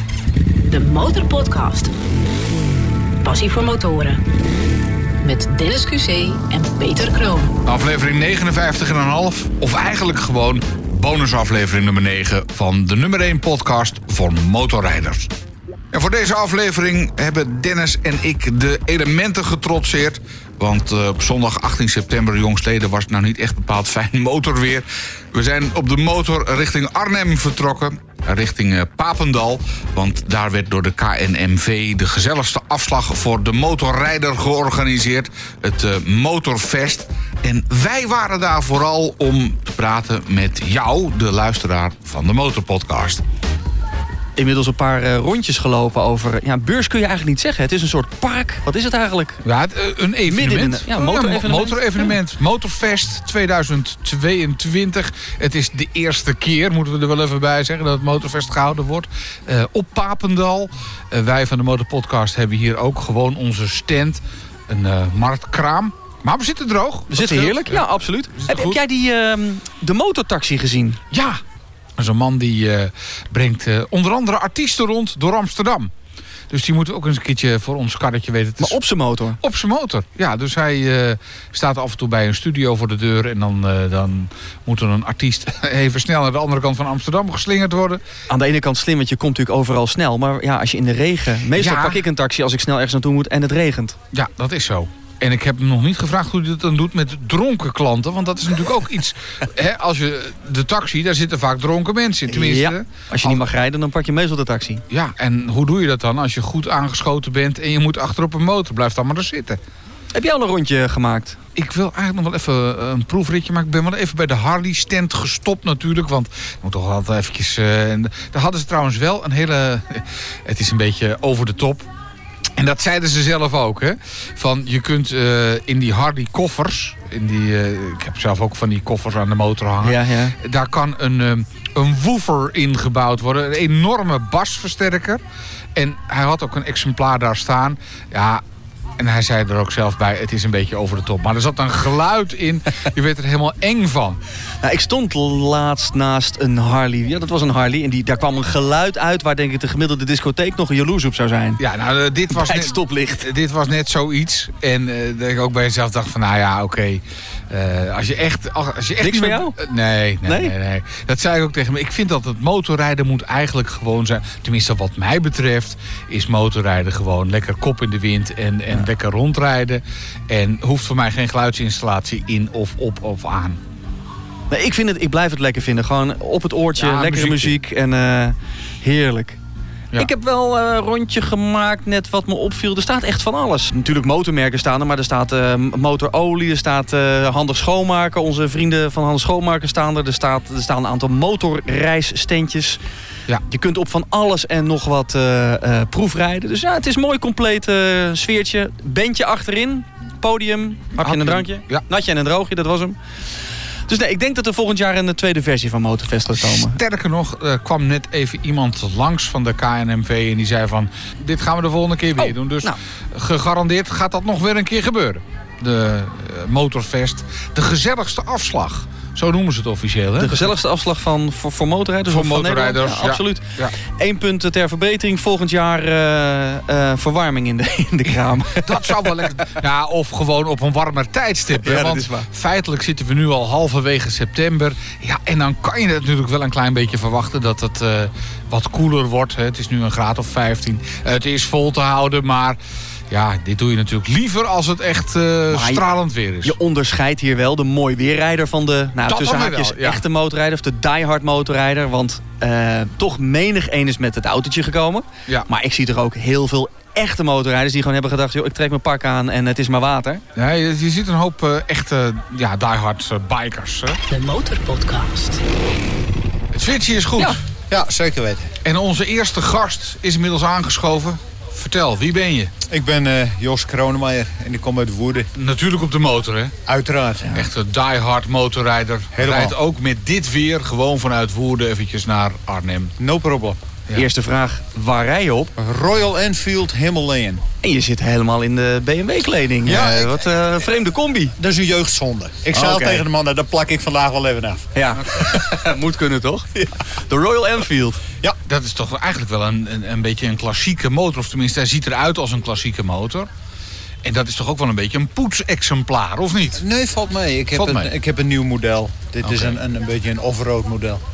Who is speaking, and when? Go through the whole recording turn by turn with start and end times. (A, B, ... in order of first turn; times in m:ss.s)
0:00.7-0:01.9 A
0:03.2-0:04.2 A
0:05.2-0:07.5 A
0:07.6-0:15.3 B
0:15.9-0:43.2 B
0:44.4-0:49.4 C
0:49.4-1:08.8 B
0:50.3-0:52.1 C
1:07.1-1:11.0 C
1:11.1-1:11.4 B
1:12.0-1:15.9 B
1:16.5-1:18.8 B
1:18.6-1:19.4 C
1:19.4-1:28.0 B
1:28.3-1:34.0 C
1:31.6-1:32.0 B
1:34.1-1:43.4 B
1:42.3-1:44.8 C
1:44.9-1:49.6 B
1:50.1-1:51.4 C
1:51.5-2:01.9 B
2:02.6-2:15.2 B
2:09.8-2:10.3 C
2:15.8-2:18.4 B
2:19.0-2:24.2 B
2:24.6-2:31.6 C
2:31.6-2:53.6 B
2:32.3-2:33.3 C
2:39.0-2:39.6 C
2:40.2-2:40.5 C
2:54.5-2:59.4 C
2:56.8-2:57.5 B
2:59.9-3:12.8 C
3:13.5-3:23.0 C
3:21.0-3:21.8 B
3:23.9-3:26.8 C
3:26.5-3:40.5 B
3:32.2-3:32.8 C
3:40.2-3:49.0 C
3:42.1-3:43.7 B
3:48.6-4:02.6 B
3:51.6-3:52.3 C
4:03.1-4:06.6 B
4:05.5-4:05.8 C
4:06.4-4:20.2 C
4:09.1-4:10.0 B
4:20.4-4:24.0 B
4:24.0-4:25.4 A
4:26.5-4:27.4 B
4:27.7-4:28.5 D
4:28.6-4:32.5 B
4:32.7-4:35.3 D
4:35.4-4:36.5 B
4:36.6-4:37.5 D
4:37.3-4:42.9 B
4:39.1-4:39.6 D
4:43.0-4:43.6 D
4:43.9-4:45.5 C
4:45.6-4:47.4 D
4:47.6-4:51.3 C
4:49.6-4:50.4 D
4:51.4-4:55.4 D
4:52.5-4:53.0 C
4:54.7-4:56.5 C
4:57.0-4:58.0 C
4:58.5-5:03.3 B
5:04.0-5:06.6 B
5:06.5-5:11.0 D
5:07.6-5:07.9 B
5:09.2-5:09.6 B